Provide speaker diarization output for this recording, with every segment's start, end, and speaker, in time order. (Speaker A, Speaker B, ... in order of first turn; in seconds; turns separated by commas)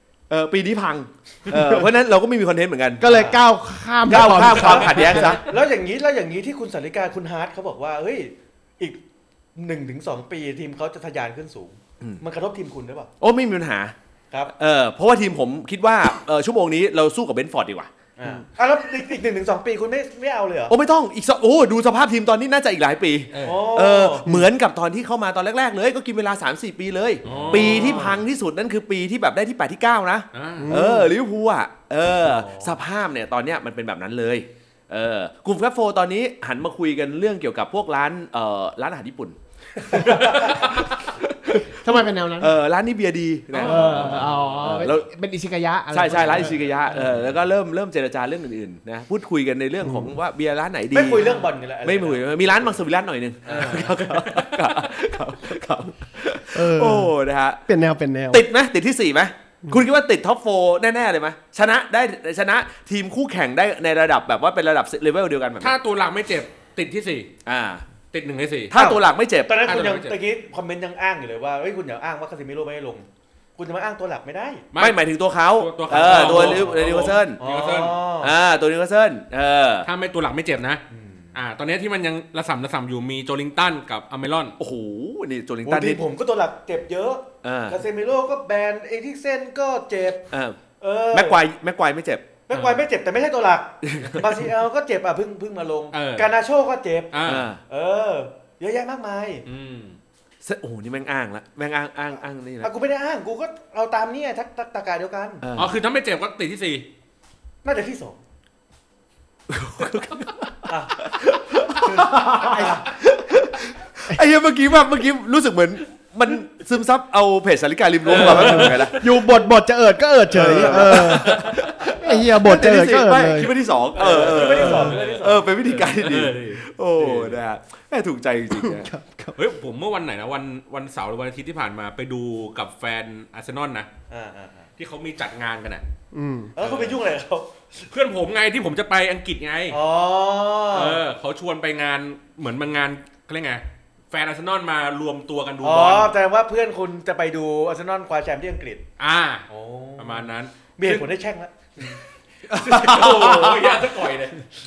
Speaker A: 0.3-3.1, Speaker B: 1.5-1.9, Speaker B: 3.0-5.4, Speaker C: 3.0-3.4, Speaker A: 4.1-5.5, Speaker C: 4.1-9.0, Speaker C: 9.6-13.1, Speaker A: 13.2-13.9, Speaker A: 14.5-17.9, Speaker C: 18.2-20.7, Speaker A: 20.7-39.4, Speaker D: 23.3-23.7, Speaker C: 23.4-24.3, Speaker D: 27.2-28.2, Speaker C: 27.3-28.1, Speaker D: 30.3-30.7, Speaker B: 30.6-31.1, Speaker C: 32.2-32.8, Speaker A: 39.9-45.1, Speaker C: 39.9-40.4, Speaker D: 40.0-40.9, Speaker B: 41.7-42.5, Speaker D: 43.5-44.7, Speaker B: 43.6-46.6, Speaker A: 45.9-57.6, Speaker B: 49.8-50.1, Speaker C: 50.9-52.8, Speaker C: 53.5-54.0, Speaker D: 53.5-54.5, Speaker B: 56.5-57.1, Speaker B: 57.7-58.5, Speaker A: 58.3-65.7, Speaker D: 65.6-67.3, Speaker A: 67.5-67.8, Speaker D: 68.1-68.7, Speaker A: 68.7-69.6, Speaker C: 68.7-73.1, Speaker D: 69.7-70.2, Speaker C: 73.6-74.7, Speaker D: 74.7-75.0, Speaker A: 74.8-77.4, Speaker D: 75.6-78.0, Speaker C: 75.9-78.3, Speaker A: 78.2-79.9, Speaker D: 79.8-80.8, Speaker C: 80.9-81.3, Speaker D: 81.3-84.5, Speaker A: 84.6-86.0, Speaker C: 85.7-90.3, Speaker A: 87.4-87.8, Speaker A: 90.3-90.6, Speaker C: 90.8-91.4, Speaker A: 91.1-92.3, Speaker C: 92.5-99.4, Speaker D: 92.5-92.8, Speaker A: 93.8-94.3, Speaker D: 95.9-96.3, Speaker D: 97.1-97.5, Speaker A: 97.2-97.6, Speaker D: 99.5-100.0, Speaker A: 100.4-102.7, Speaker C: 102.6-105.4, Speaker A: 105.4-105.7, Speaker D: 105.6-106.9, Speaker C: 107.6-108.2, Speaker A: 109.5-119.0, Speaker C: 110.7-111.0, Speaker B: 111.9-112.8, Speaker C: 112.5-112.9, Speaker D: 118.1-119.1, Speaker B: 118.2-123.5, Speaker A: 120.3-128.9, Speaker C: 120.4-120.9, Speaker D: 120.7-121.7, Speaker C: 123.9-125.5, Speaker D: 124.0-127.4, Speaker B: 128.5-129.4, Speaker D: 129.4-133.9, Speaker C: 134.1-134.7, Speaker D: 134.8-135.8, Speaker B: 136.1-136.5, Speaker C: 136.6-137.5, Speaker D: 136.6-137.0, Speaker D: 137.8-139.8, Speaker C: 139.7-141.0, Speaker D: 140.7-146.2, Speaker C: 145.6-148.8, Speaker D: 149.0-149.5, Speaker C: 149.5-152.0, Speaker D: 150.0-151.1, Speaker A: 152.5-153.8, Speaker D: 152.5-154.5, Speaker C: 152.8-153.3